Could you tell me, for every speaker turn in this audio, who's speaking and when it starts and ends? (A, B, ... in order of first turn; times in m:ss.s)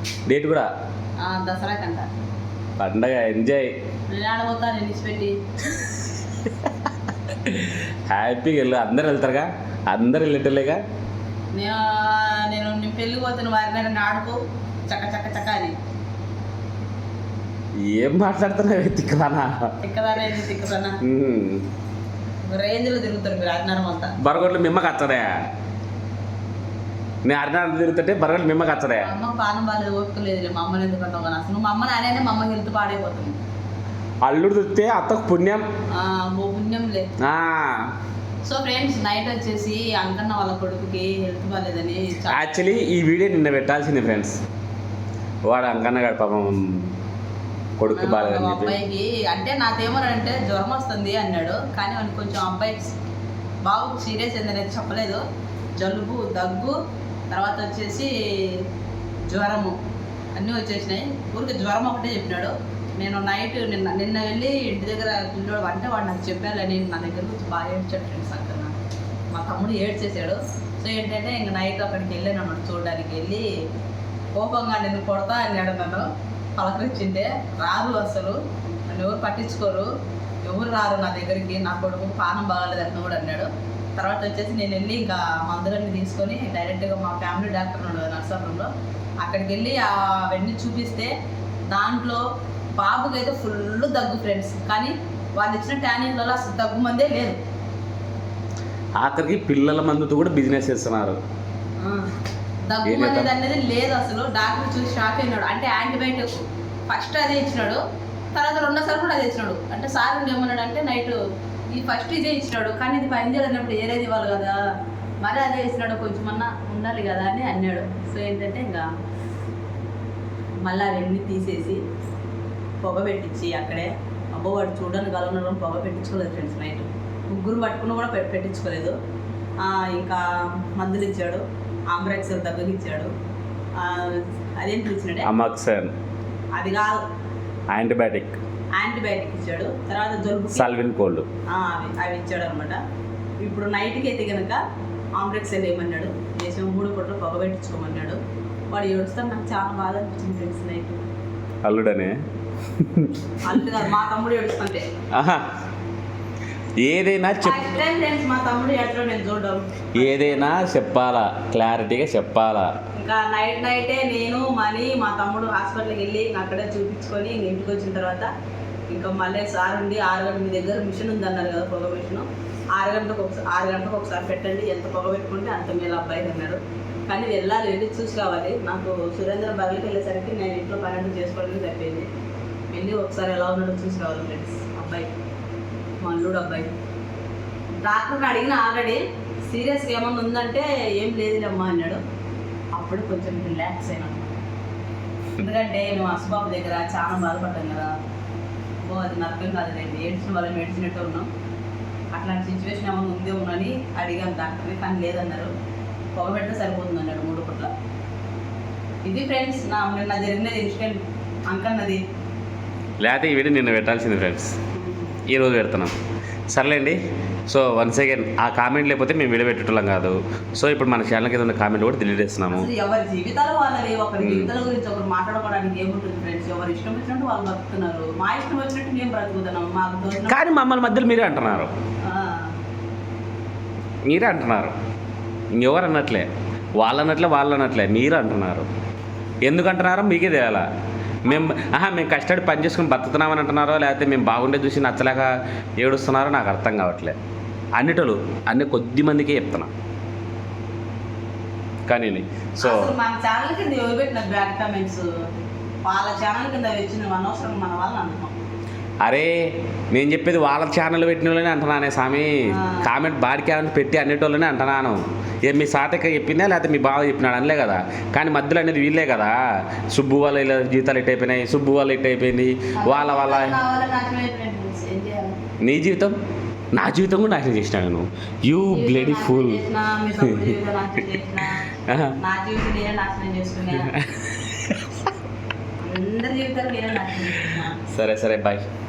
0:00.3-0:00.7 A
0:01.2-0:02.1 B
0:02.8-0:03.7 A
0:04.1-0:05.4 B
0:06.5-0:06.7 A
0:07.3-0:10.8 A
0:11.5-0:15.8 B
0:17.8-0:19.7 A
0:19.8-0:21.0 B
0:21.0-0:21.7 A
0:22.4-0:24.2 B
0:24.2-0:25.4 A
0:27.2-0:29.1 A
0:29.0-0:33.4 B
0:34.2-0:35.6 A
0:35.9-0:37.1 B
0:37.2-0:37.9 A
0:38.5-0:42.4 B
0:42.3-0:44.4 A
0:45.5-0:47.0 A
0:47.8-0:48.8 A
0:47.9-0:53.0 B
0:53.6-0:55.2 B
0:55.8-0:56.8 B
0:57.3-0:58.6 B
0:59.3-0:59.8 B
1:00.4-1:08.8 B
1:09.3-1:13.5 B
1:14.4-1:19.9 B
1:20.4-1:28.7 B
1:29.2-1:31.1 B
1:31.7-1:32.2 B
1:32.8-1:37.4 B
1:39.0-1:41.2 A
1:41.8-1:42.1 B
1:42.7-1:47.8 B
1:42.8-1:43.3 A
1:48.3-1:51.2 B
1:51.7-1:54.6 B
1:55.2-1:58.9 B
2:00.6-2:01.8 B
2:02.8-2:09.0 B
2:09.6-2:13.1 B
2:13.8-2:15.3 B
2:15.2-2:15.9 A
2:16.6-2:17.0 B
2:17.7-2:18.4 A
2:18.8-2:20.7 B
2:20.5-2:21.3 A
2:21.5-2:22.8 B
2:23.4-2:24.6 B
2:25.2-2:28.2 B
2:28.7-2:31.0 B
2:31.6-2:32.2 A
2:32.8-2:33.2 A
2:33.4-2:34.9 B
2:35.1-2:35.5 A
2:36.8-2:37.7 A
2:37.4-2:40.5 B
2:40.0-2:42.7 A
2:43.0-2:48.3 B
2:48.9-3:02.1 B
3:02.7-3:05.1 B
3:06.0-3:06.7 B
3:07.8-3:12.0 B
3:12.8-3:14.4 B
3:15.4-3:17.9 B
3:18.8-3:21.3 B
3:22.1-3:25.5 B
3:26.1-3:27.7 B
3:29.0-3:32.0 B
3:33.0-3:34.6 A
3:34.8-3:35.2 B
3:35.3-3:36.0 A
3:36.5-3:42.7 A
3:42.5-3:50.5 B
3:44.2-3:44.5 A
3:50.3-3:51.7 A
3:52.0-3:52.6 B
3:54.1-3:54.8 A
3:55.5-3:56.3 A
3:56.8-3:58.7 A
3:59.4-4:00.6 A
4:01.2-4:07.2 A
4:01.3-4:01.6 B
4:07.8-4:09.7 A
4:11.9-4:12.9 A
4:12.6-4:15.1 B
4:15.8-4:18.4 B
4:19.0-4:33.6 A
4:22.5-4:22.9 B
4:32.8-4:35.4 B
4:35.6-4:36.2 A
4:36.7-4:39.6 A
4:38.6-4:41.7 B
4:40.2-4:40.6 A
4:41.9-4:42.2 A
4:42.2-4:43.9 B
4:43.9-4:45.1 A
4:45.8-4:47.8 B
4:47.3-4:48.7 A